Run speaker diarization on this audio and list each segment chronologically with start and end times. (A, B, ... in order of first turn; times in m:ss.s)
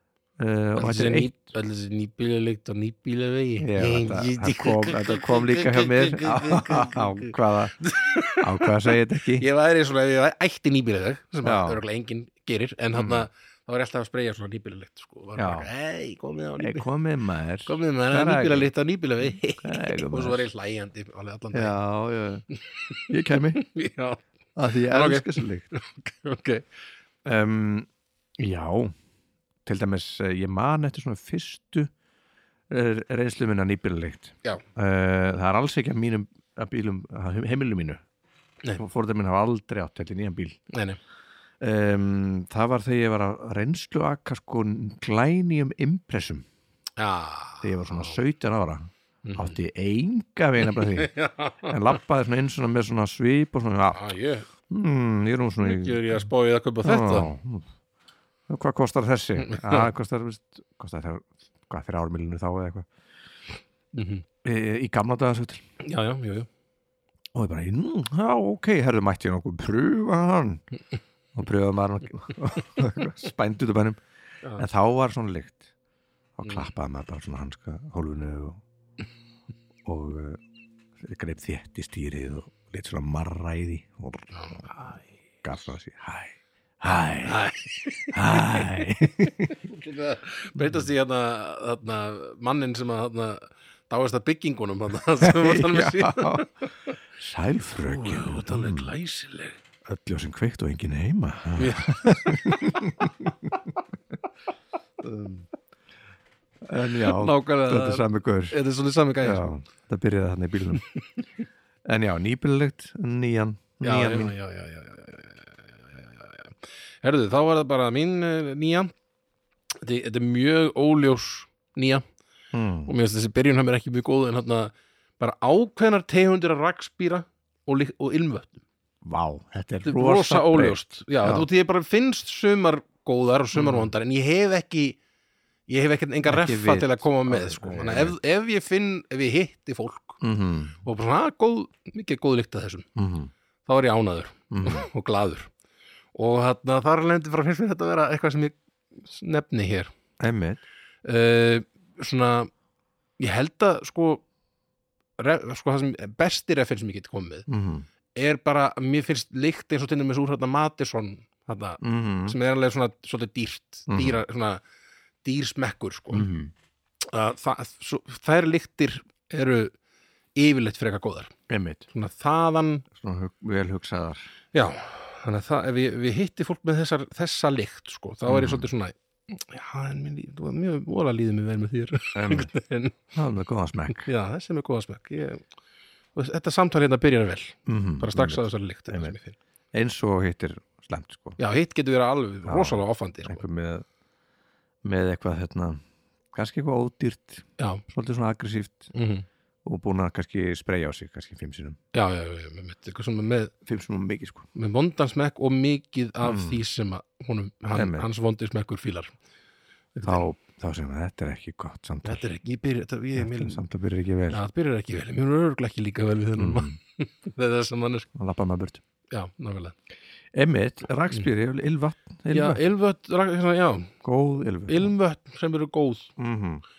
0:00.4-0:01.4 A
0:00.8-0:16.9 B
0:03.6-0:07.8 A
0:08.4-0:09.4 A
0:11.4-0:11.8 A
0:12.9-0:13.2 A
0:15.4-0:15.7 A
0:16.6-0:18.7 A
0:17.6-0:21.8 B
0:19.6-0:20.5 A
0:21.5-0:22.4 A
0:22.7-0:26.6 B
0:23.1-0:23.6 A
0:24.6-0:25.7 A
0:27.2-0:28.9 A
0:29.6-0:31.9 A
0:32.7-0:38.0 A
0:38.8-0:40.6 A
0:40.7-0:41.0 B
0:41.6-0:46.4 A
0:47.0-0:48.2 B
0:47.6-0:51.1 A
0:49.2-0:49.6 B
0:50.6-0:52.0 B
0:51.6-0:54.0 A
0:53.9-0:54.5 B
0:54.7-0:56.0 A
0:55.6-0:57.3 B
0:56.8-0:57.6 A
0:58.5-1:02.9 A
0:59.4-0:59.9 B
1:03.9-1:04.2 B
1:04.4-1:05.6 A
1:05.8-1:06.5 B
1:07.3-1:10.6 A
1:11.3-1:14.0 A
1:14.6-1:15.6 A
1:16.4-1:18.6 A
1:16.4-1:16.7 B
1:19.8-1:20.4 A
1:21.0-1:24.3 A
1:24.3-1:25.1 B
1:25.4-1:27.4 A
1:27.2-1:36.9 B
1:28.1-1:29.6 A
1:35.2-1:36.4 A
1:37.2-1:38.9 A
1:37.8-1:39.6 B
1:39.8-1:43.6 A
1:41.6-1:42.8 B
1:45.0-1:45.4 A
1:46.6-1:48.6 A
1:47.0-1:49.5 B
1:49.2-1:50.8 A
1:51.8-1:54.3 A
1:53.8-1:58.9 B
1:59.8-2:02.0 B
2:02.5-2:02.9 A
2:02.8-2:08.6 B
2:09.0-2:11.5 A
2:09.8-2:15.0 B
2:13.5-2:13.9 A
2:15.7-2:20.2 B
2:16.3-2:18.1 A
2:20.2-2:20.7 A
2:20.8-2:22.9 B
2:23.0-2:23.3 A
2:23.6-2:25.5 B
2:24.5-2:24.8 A
2:26.1-2:29.9 B
2:30.2-2:30.6 A
2:31.0-2:32.5 B
2:33.2-2:34.2 B
2:35.2-2:37.5 B
2:37.5-2:37.8 A
2:38.1-2:44.6 B
2:41.8-2:42.4 A
2:43.9-2:44.2 A
2:45.2-2:46.3 B
2:46.1-2:46.5 A
2:47.1-2:49.7 B
2:50.4-2:51.3 B
2:51.5-2:51.8 A
2:51.9-2:52.9 B
2:52.9-2:54.2 A
2:54.5-3:03.0 B
2:58.3-2:58.6 A
3:02.1-3:02.5 A
3:03.1-3:04.1 A
3:03.9-3:05.4 B
3:06.1-3:09.4 B
3:07.6-3:09.2 A
3:09.7-3:11.4 A
3:11.4-3:13.4 B
3:12.4-3:13.8 A
3:14.8-3:15.8 A
3:16.3-3:18.9 A
3:18.9-3:19.2 B
3:19.6-3:21.8 A
3:21.9-3:23.5 B
3:23.6-3:24.5 A
3:24.5-3:29.2 B
3:26.2-3:26.6 A
3:27.7-3:28.1 A
3:29.9-3:30.2 B
3:30.0-3:32.2 A
3:32.0-3:33.6 B
3:33.2-3:34.4 A
3:34.3-3:38.1 B
3:36.4-3:36.7 A
3:38.2-3:38.8 A
3:39.1-3:39.8 B
3:40.3-3:42.6 A
3:42.3-3:43.9 B
3:44.0-3:44.9 A
3:44.7-3:46.1 B
3:46.2-3:46.6 A